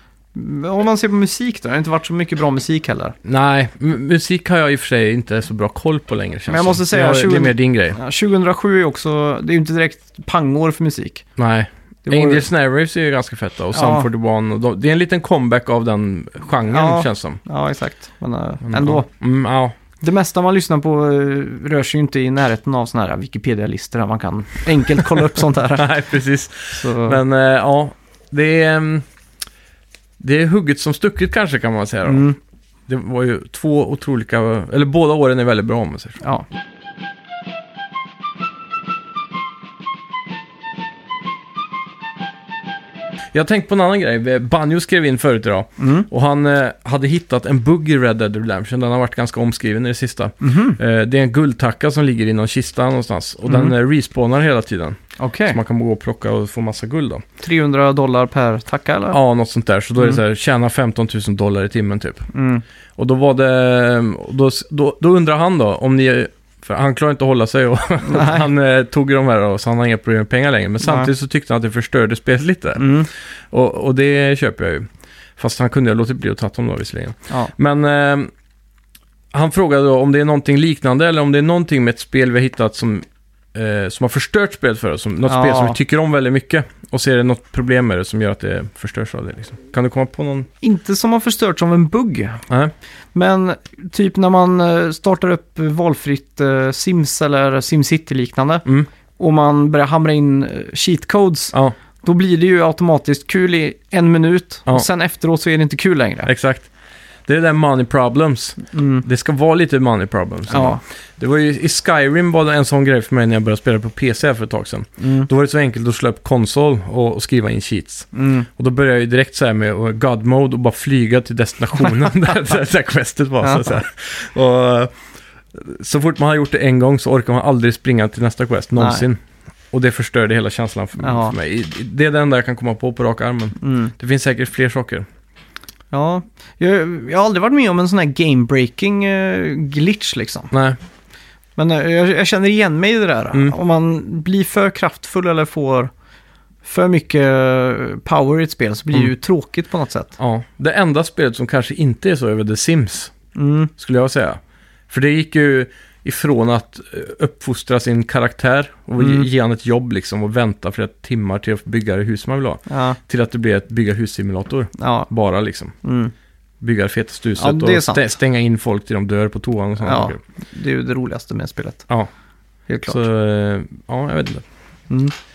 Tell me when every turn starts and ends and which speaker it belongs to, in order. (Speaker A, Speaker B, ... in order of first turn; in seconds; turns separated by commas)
Speaker A: 0.3-3.1, Speaker B: 3.2-8.0, Speaker A: 6.5-11.3, Speaker B: 11.4-17.4, Speaker A: 12.1-12.5, Speaker A: 13.7-14.1, Speaker A: 16.7-19.1, Speaker B: 18.6-19.7, Speaker A: 20.0-25.9, Speaker B: 25.7-29.1, Speaker A: 26.7-27.2, Speaker B: 30.2-32.3, Speaker A: 32.1-32.4, Speaker B: 32.9-36.2, Speaker B: 43.3-57.2, Speaker A: 45.8-46.1, Speaker A: 50.4-50.8, Speaker A: 53.5-53.7, Speaker A: 55.2-55.6, Speaker A: 57.4-59.2, Speaker B: 59.1-62.3, Speaker A: 62.3-62.6, Speaker B: 63.0-78.3, Speaker A: 68.0-68.5, Speaker A: 70.8-71.1, Speaker A: 72.8-73.1, Speaker B: 79.3-90.5, Speaker A: 85.3-85.8, Speaker A: 90.6-92.4, Speaker A: 93.1-98.7, Speaker A: 99.2-106.3, Speaker B: 106.3-106.7, Speaker B: 107.3-125.0, Speaker A: 108.7-109.0, Speaker A: 110.5-110.8, Speaker A: 115.0-115.3, Speaker A: 118.1-118.5, Speaker A: 123.4-123.8, Speaker B: 125.5-129.2, Speaker A: 128.8-129.1, Speaker B: 129.7-135.1, Speaker A: 131.0-131.3, Speaker A: 133.6-133.9, Speaker A: 135.9-140.5, Speaker B: 140.5-140.8, Speaker A: 141.6-145.9, Speaker A: 146.6-150.2, Speaker B: 150.2-153.2, Speaker A: 153.3-153.7, Speaker B: 153.8-165.8, Speaker A: 159.0-159.3, Speaker A: 162.7-163.0, Speaker A: 164.8-165.1, Speaker A: 165.8-166.1, Speaker B: 166.6-170.2, Speaker A: 167.4-168.2, Speaker A: 169.8-171.9, Speaker A: 172.7-173.0, Speaker B: 172.9-174.4